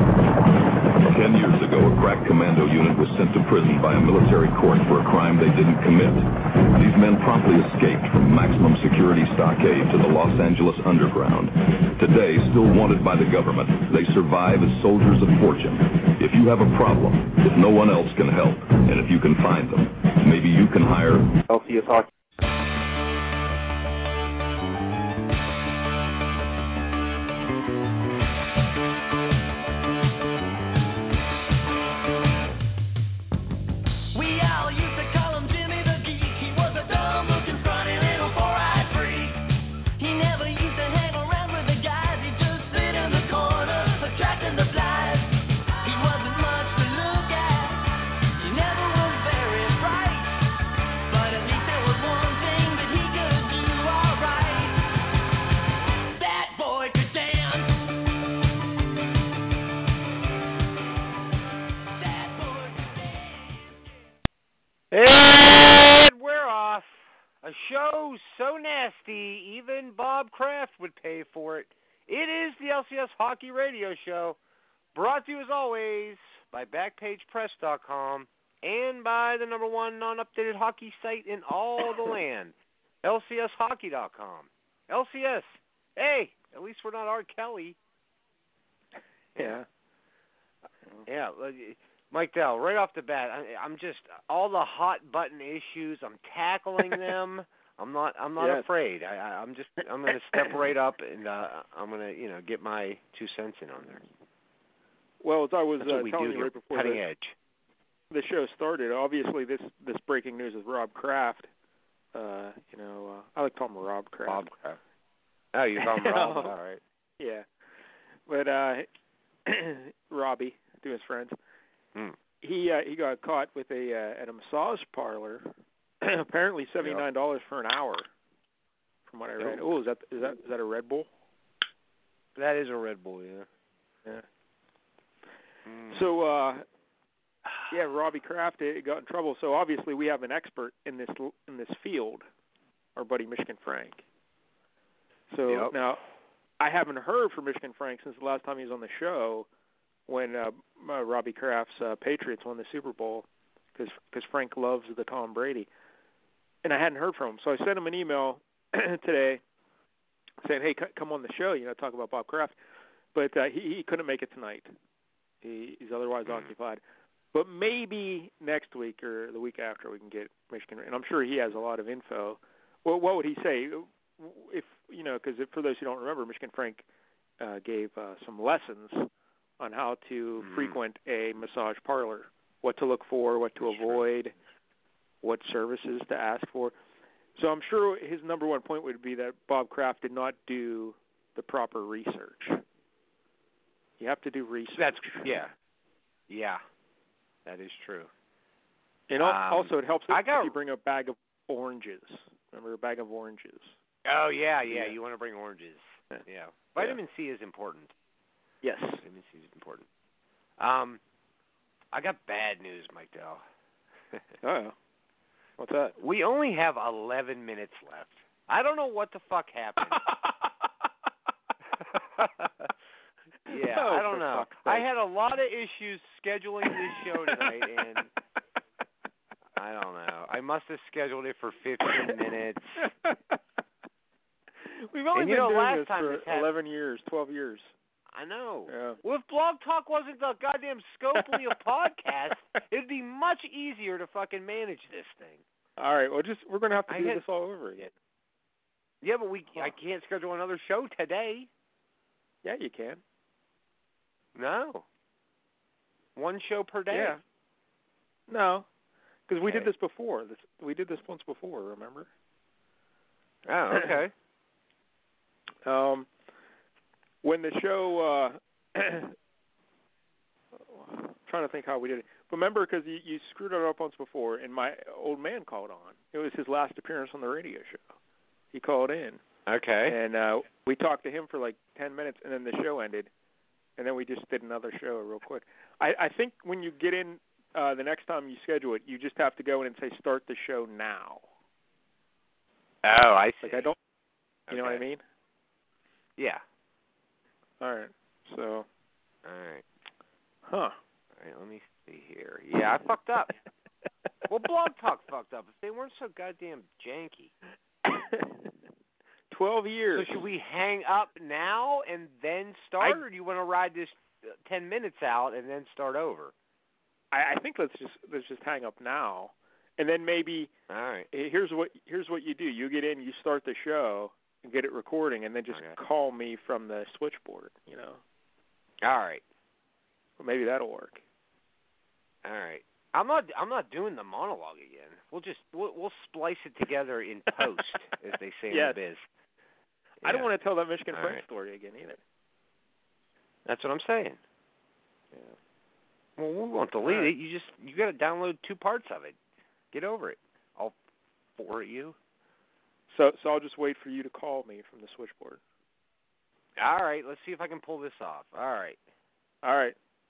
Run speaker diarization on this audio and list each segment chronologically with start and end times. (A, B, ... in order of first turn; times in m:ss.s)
0:01.0-0:22.1 A
0:34.1-0:39.4 B
0:40.0-0:50.4 B
0:51.1-0:54.8 B
0:56.1-0:57.7 B
1:02.0-1:03.6 B
1:04.9-1:06.9 C
1:07.4-1:14.4 C
1:15.0-1:27.8 C
1:29.4-1:29.7 D
1:31.1-1:44.1 C
1:38.4-1:38.7 D
1:45.2-1:47.0 D
1:45.8-1:47.4 C
1:48.1-1:51.5 D
1:52.1-1:54.5 D
1:54.3-1:54.8 C
1:55.5-1:56.8 C
1:55.8-1:56.5 D
1:57.2-1:57.5 D
1:58.3-1:58.9 D
1:59.5-2:01.4 D
2:02.4-2:08.1 D
2:09.1-2:11.1 D
2:09.4-2:09.7 C
2:12.4-2:13.5 C
2:15.7-2:16.0 C
2:15.9-2:16.6 D
2:17.7-2:22.2 D
2:23.0-2:24.0 D
2:25.3-2:26.0 D
2:25.5-2:25.8 C
2:26.6-2:29.5 D
2:30.1-2:35.7 D
2:36.6-2:39.4 D
2:40.4-2:42.6 D
2:43.1-2:44.7 D
2:45.4-2:46.8 D
2:47.3-2:56.9 D
2:57.4-3:04.4 D
3:00.4-3:00.8 C
3:03.6-3:04.0 C
3:05.2-3:06.8 D
3:07.4-3:12.6 D
3:14.0-3:15.4 D
3:14.8-3:15.5 C
3:16.3-3:16.6 C
3:17.4-3:18.1 C
3:19.1-3:23.8 D
3:19.2-3:20.6 C
3:24.0-3:27.9 C
3:24.7-3:25.0 D
3:28.6-3:29.0 D
3:29.0-3:29.9 C
3:30.6-3:31.0 C
3:31.9-3:33.4 C
3:34.4-3:34.8 D
3:35.6-3:36.0 D
3:36.0-3:40.0 C
3:42.2-3:42.5 C
3:43.5-3:44.9 D
3:43.5-3:48.1 C
3:47.3-3:47.8 D
3:49.6-3:52.8 C
3:52.8-3:53.2 D
3:54.6-3:57.7 D
3:55.1-3:56.5 C
3:58.1-4:05.4 C
3:58.7-3:59.0 D
4:01.2-4:01.5 D
4:05.8-4:07.9 D
4:06.9-4:07.2 C
4:09.0-4:11.5 C
4:12.4-4:13.0 D
4:14.4-4:14.8 C
4:16.2-4:17.2 C
4:16.9-4:17.2 D
4:18.3-4:18.7 D
4:19.3-4:22.1 D
4:19.4-4:19.7 C
4:23.5-4:24.1 C
4:25.6-4:26.1 D
4:27.2-4:29.1 D
4:30.6-4:37.9 D
4:38.5-4:39.2 D
4:39.5-4:40.0 C
4:39.8-4:43.1 D
4:43.8-4:51.3 D
4:52.8-4:53.7 C
4:53.4-4:53.8 D
4:54.5-4:54.8 C
4:54.5-4:55.0 D
4:56.2-4:56.4 C
4:57.6-4:58.7 D
4:59.2-4:59.6 C
5:00.5-5:00.8 D
5:01.2-5:03.3 C
5:04.3-5:07.3 C
5:07.8-5:08.5 D
5:09.3-5:10.2 D
5:09.9-5:16.3 C
5:17.1-5:20.5 D
5:20.7-5:21.1 C
5:21.1-5:28.0 D
5:25.5-5:25.8 C
5:28.8-5:29.2 C
5:30.2-5:31.0 D
5:32.2-5:39.0 C
5:38.5-5:38.8 D
5:40.0-5:42.0 D
5:40.9-5:41.2 C
5:43.4-5:44.2 C
5:46.2-5:49.2 C
5:46.8-5:47.1 D
5:49.7-5:50.8 C
5:51.4-5:52.0 C
5:52.9-5:55.4 D
5:56.6-5:58.8 C
5:59.4-5:59.8 D